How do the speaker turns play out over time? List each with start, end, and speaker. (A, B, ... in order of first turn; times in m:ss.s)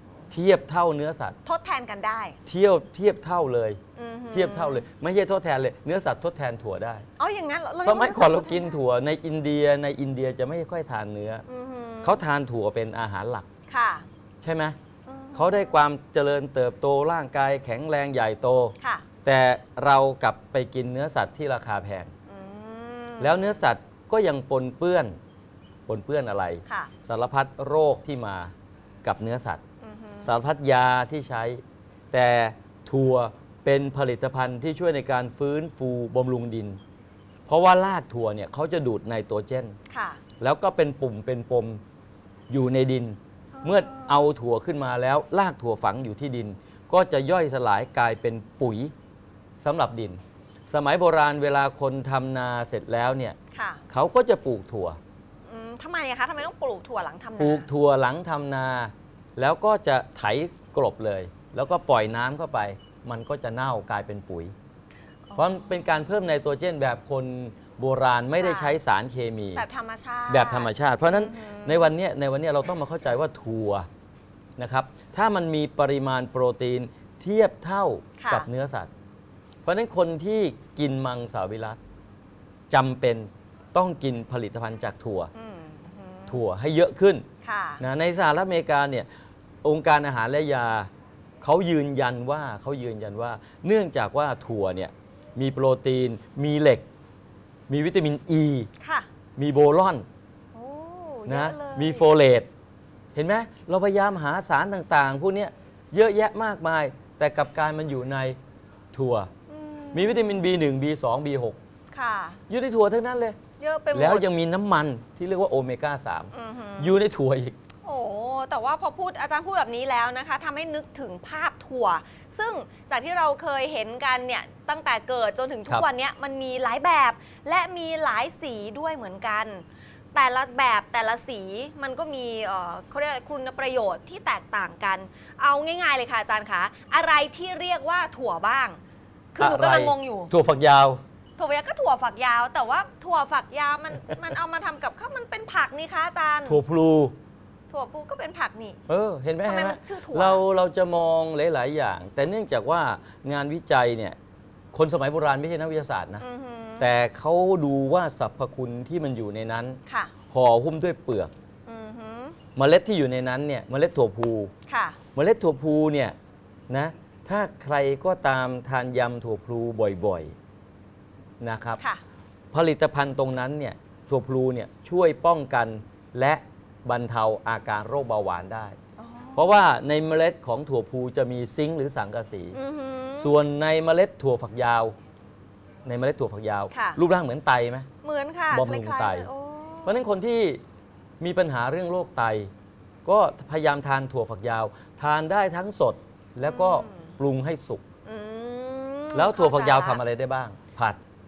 0:00.3-0:01.4 A
0:01.4-0:02.4 B
0:02.5-0:03.8 A
0:03.9-0:04.8 B
0:04.3-0:07.1 A
0:07.2-0:08.8 B
0:07.8-0:11.4 A
0:11.4-0:12.2 B
0:12.0-0:13.5 A
0:13.7-0:14.1 B
0:14.4-0:14.8 A
0:15.0-0:15.8 B
0:15.4-0:22.1 A
0:18.8-0:19.1 B
0:22.3-0:23.6 B
0:23.2-0:25.2 A
0:25.9-0:28.5 A
0:26.6-0:26.9 B
0:29.0-0:29.6 A
0:29.8-0:30.3 B
0:30.2-0:36.8 A
0:37.5-0:39.8 A
0:39.9-0:40.2 B
0:40.4-0:41.8 A
0:42.5-0:48.9 A
0:43.5-0:44.3 B
0:49.6-0:53.4 A
0:53.5-0:53.8 B
0:53.9-0:55.0 A
0:55.5-0:57.7 B
0:57.4-1:04.5 A
1:05.3-1:06.0 B
1:05.4-1:09.6 A
1:08.4-1:08.8 B
1:09.6-1:12.0 B
1:10.3-1:13.9 A
1:14.6-1:18.9 A
1:18.2-1:18.5 B
1:19.6-1:21.8 A
1:22.7-1:25.3 A
1:25.3-1:26.4 B
1:26.3-1:27.2 A
1:27.4-1:27.8 B
1:27.8-1:29.1 A
1:29.6-1:30.9 A
1:31.4-1:36.8 A
1:37.7-1:38.7 A
1:38.8-1:39.1 B
1:39.4-1:40.1 A
1:40.5-1:42.1 B
1:41.3-1:42.5 A
1:43.1-1:48.4 A
1:48.9-1:49.3 A
1:49.5-1:50.4 B
1:49.9-1:51.6 A
1:51.9-1:52.4 B
1:52.5-1:53.4 A
1:53.6-1:54.3 B
1:53.9-1:57.6 A
1:56.3-1:57.0 B
1:57.8-2:18.8 B
2:19.3-2:20.3 B
2:19.4-2:21.0 A
2:21.4-2:26.6 B
2:26.5-2:27.2 A
2:27.7-2:28.8 B
2:28.9-2:34.2 A
2:29.4-2:30.4 B
2:34.7-2:36.2 A
2:36.2-2:36.9 B
2:36.8-2:39.8 A
2:39.9-2:40.1 B
2:40.3-2:41.3 A
2:41.7-2:42.4 B
2:42.6-2:44.5 A
2:44.7-2:45.0 B
2:45.2-2:46.2 A
2:46.7-2:50.4 A
2:51.4-2:51.8 A
2:51.8-2:52.0 B
2:52.5-2:58.8 A
2:59.0-2:59.6 B
2:59.4-3:02.6 A
3:02.5-3:03.4 B
3:03.2-3:05.0 A
3:05.8-3:07.9 A
3:06.7-3:07.0 B
3:08.0-3:10.0 B
3:08.5-3:09.3 A
3:09.9-3:10.6 A
3:11.2-3:12.5 A
3:13.0-3:17.8 A
3:16.5-3:17.1 B
3:18.0-3:20.0 B
3:19.1-3:21.0 A